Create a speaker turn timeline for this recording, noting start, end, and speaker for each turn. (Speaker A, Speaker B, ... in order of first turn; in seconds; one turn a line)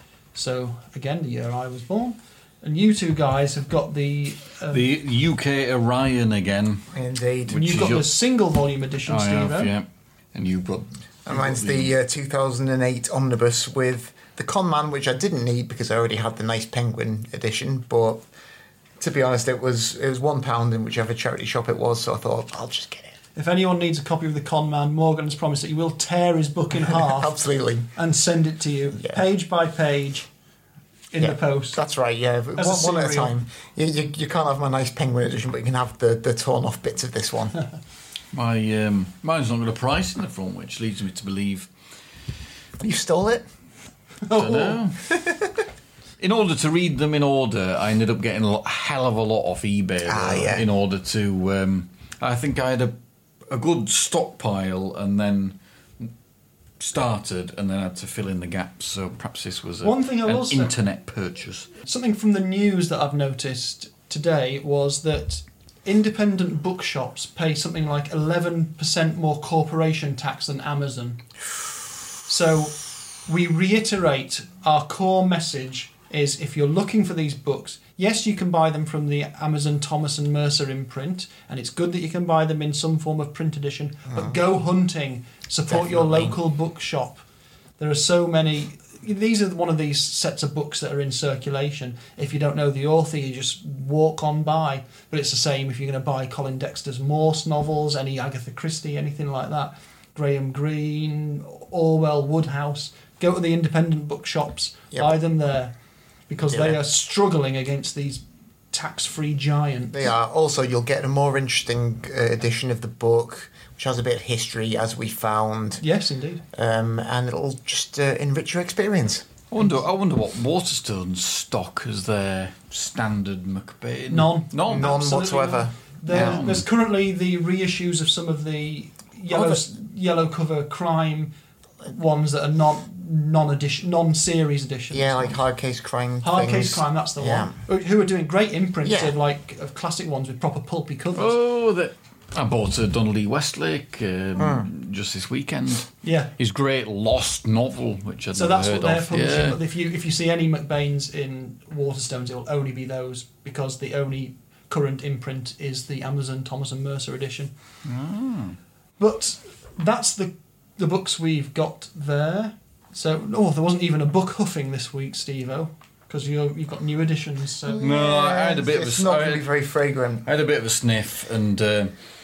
Speaker A: 0.3-4.8
Speaker B: 4.7-6.9
Speaker C: 6.9-7.8
Speaker B: 7.5-8.1
Speaker A: 7.5-9.7
Speaker B: 9.1-11.9
Speaker C: 11.2-18.2
Speaker C: 19.0-23.1
Speaker A: 23.4-27.4
Speaker C: 26.8-27.9
Speaker A: 27.9-30.3
Speaker A: 31.1-31.8
Speaker C: 31.2-37.6
Speaker A: 32.6-33.3
Speaker B: 38.3-41.7
Speaker C: 42.8-43.5
Speaker A: 44.2-44.8
Speaker B: 44.3-45.1
Speaker C: 45.1-45.4
Speaker B: 46.2-52.9
Speaker C: 50.1-50.7
Speaker B: 53.5-56.1
Speaker B: 56.8-61.7
Speaker A: 59.8-60.7
Speaker A: 61.8-71.2
Speaker A: 72.3-87.2
Speaker C: 84.1-84.4
Speaker C: 85.7-86.3
Speaker A: 87.8-105.7
Speaker A: 106.3-110.1
Speaker C: 106.5-106.8
Speaker C: 109.9-115.8
Speaker A: 115.8-116.4
Speaker C: 116.5-119.2
Speaker B: 119.5-125.0
Speaker A: 124.1-131.3
Speaker C: 124.6-126.5
Speaker B: 126.1-126.6
Speaker A: 131.9-135.4
Speaker C: 134.9-137.6
Speaker A: 136.2-141.4
Speaker C: 138.8-139.1
Speaker B: 141.1-149.6
Speaker C: 144.4-144.7
Speaker A: 146.0-146.3
Speaker A: 148.3-157.5
Speaker B: 157.8-158.6
Speaker A: 159.0-167.8
Speaker C: 167.7-170.3
Speaker B: 167.8-169.5
Speaker B: 170.2-171.9